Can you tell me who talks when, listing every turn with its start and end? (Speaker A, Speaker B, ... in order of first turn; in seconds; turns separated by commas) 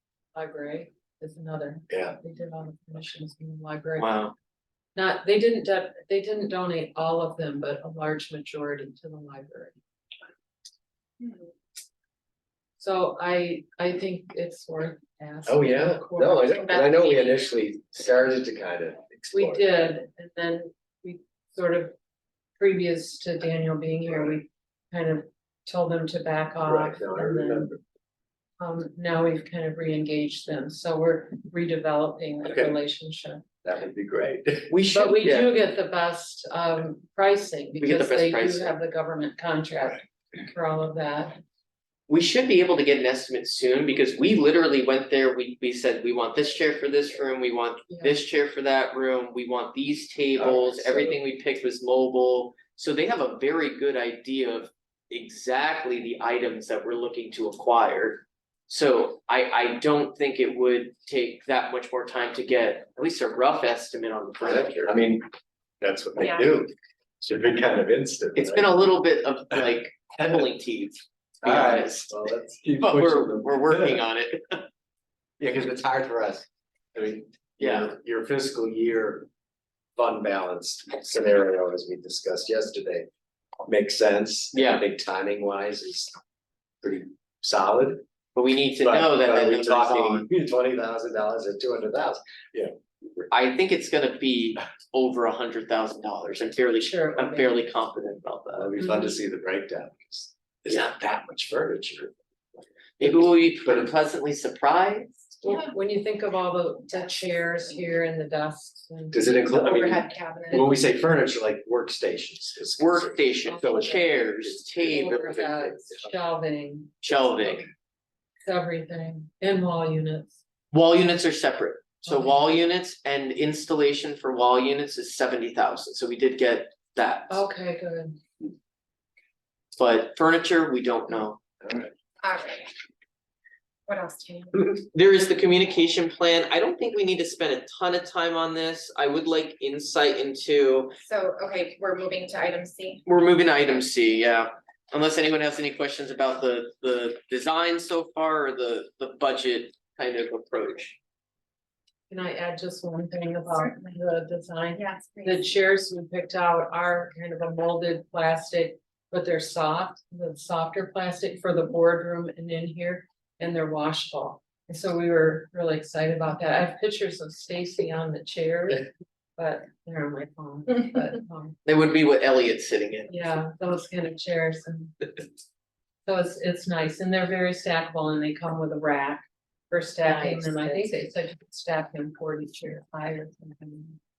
Speaker A: 0.3-4.2, Speaker B: 1.9-2.2, Speaker C: 4.0-4.3, Speaker A: 5.0-9.8, Speaker A: 12.8-17.4, Speaker B: 15.5-19.9, Speaker D: 16.8-17.3, Speaker A: 19.3-21.9, Speaker A: 22.6-27.7, Speaker B: 26.6-27.8, Speaker A: 28.6-33.4, Speaker B: 32.5-32.8, Speaker B: 33.6-34.7, Speaker C: 34.7-35.5, Speaker A: 34.9-41.4, Speaker C: 37.8-38.7, Speaker C: 42.1-64.9, Speaker B: 50.4-51.2, Speaker B: 64.4-65.2, Speaker B: 65.8-68.8, Speaker D: 66.2-66.5, Speaker C: 68.3-72.1, Speaker B: 71.4-74.0, Speaker C: 72.8-74.7, Speaker B: 75.4-79.3, Speaker C: 77.6-77.9, Speaker B: 80.0-83.1, Speaker B: 83.7-86.1, Speaker C: 84.5-84.8, Speaker B: 86.8-88.0, Speaker C: 88.4-90.3, Speaker B: 88.8-92.8, Speaker C: 93.3-98.7, Speaker A: 96.8-97.7, Speaker B: 98.5-102.1, Speaker A: 98.8-99.2, Speaker C: 103.0-105.2, Speaker B: 103.0-103.9, Speaker A: 105.4-109.6, Speaker B: 109.1-116.1, Speaker D: 109.5-110.8, Speaker C: 112.8-115.4, Speaker A: 113.5-114.2, Speaker A: 114.8-116.9, Speaker C: 117.0-117.7, Speaker A: 118.4-120.4, Speaker C: 120.7-127.5, Speaker A: 122.1-122.5, Speaker A: 127.3-128.2, Speaker C: 129.7-131.4, Speaker B: 131.6-131.9, Speaker D: 132.2-132.7, Speaker D: 133.9-134.6, Speaker C: 134.6-140.9, Speaker D: 141.0-143.0, Speaker C: 143.1-151.0, Speaker A: 152.1-171.6, Speaker D: 153.5-154.0, Speaker D: 154.7-155.5, Speaker C: 171.7-173.1, Speaker A: 173.1-175.2, Speaker A: 176.1-184.0